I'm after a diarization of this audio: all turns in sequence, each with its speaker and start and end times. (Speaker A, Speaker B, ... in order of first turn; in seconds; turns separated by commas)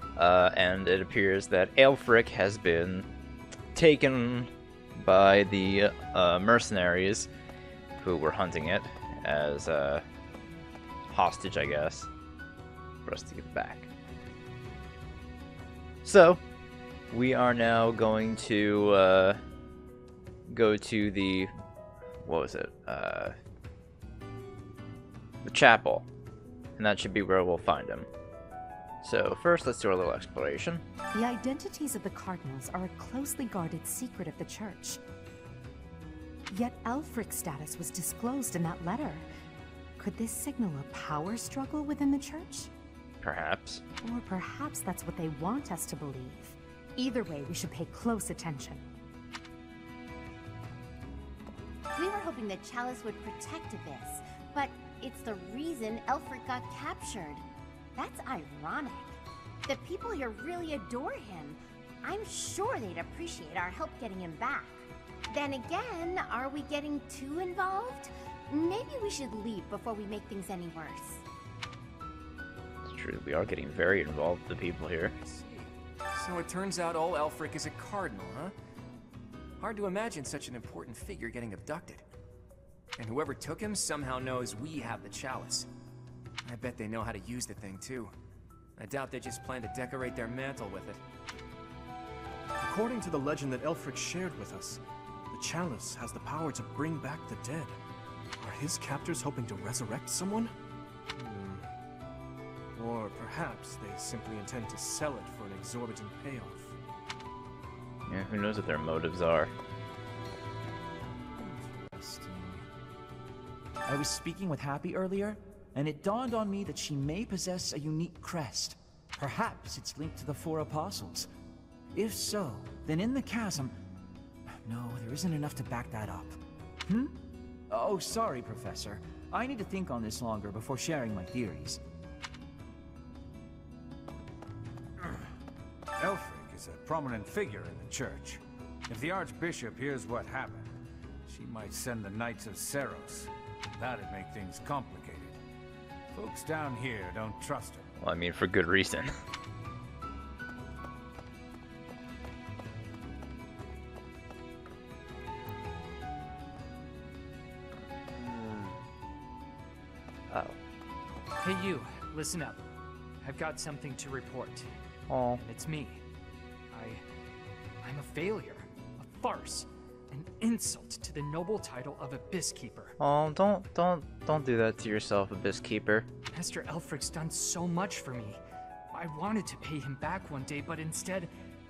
Speaker A: 0.2-3.1, Speaker A: 3.7-7.3, Speaker A: 8.0-10.0, Speaker A: 11.1-12.1, Speaker A: 13.1-13.9, Speaker A: 16.0-16.4, Speaker A: 17.1-19.4, Speaker A: 20.5-21.5, Speaker A: 22.2-23.4, Speaker A: 25.4-26.1, Speaker A: 26.8-28.1, Speaker A: 29.0-30.8, Speaker B: 31.1-35.0, Speaker B: 36.5-39.3, Speaker B: 40.0-42.7, Speaker A: 43.2-43.8, Speaker B: 44.0-48.8, Speaker C: 52.0-57.4, Speaker B: 53.0-54.0, Speaker B: 58.0-59.1, Speaker B: 59.7-61.2, Speaker C: 61.2-61.6, Speaker C: 62.1-64.7, Speaker B: 63.7-64.4, Speaker C: 65.3-69.3, Speaker B: 69.3-70.1, Speaker C: 69.9-71.2, Speaker A: 72.8-75.1, Speaker D: 75.1-78.5, Speaker D: 79.6-82.0, Speaker D: 83.0-85.7, Speaker D: 86.4-88.1, Speaker D: 88.8-91.0, Speaker E: 92.6-97.8, Speaker E: 98.4-100.5, Speaker E: 101.2-101.6, Speaker E: 102.8-106.8, Speaker A: 108.0-109.5, Speaker F: 111.4-112.6, Speaker F: 113.8-121.3, Speaker F: 121.9-123.8, Speaker F: 124.6-127.2, Speaker F: 127.7-131.8, Speaker G: 136.0-140.7, Speaker G: 141.2-145.4, Speaker G: 146.1-147.9, Speaker A: 148.0-149.1, Speaker A: 160.3-160.6, Speaker H: 161.4-162.6, Speaker H: 163.2-164.8, Speaker A: 165.1-165.4, Speaker H: 165.3-166.0, Speaker H: 166.7-167.0, Speaker H: 167.8-172.9, Speaker A: 173.0-176.1, Speaker H: 176.3-178.4, Speaker H: 178.9-181.3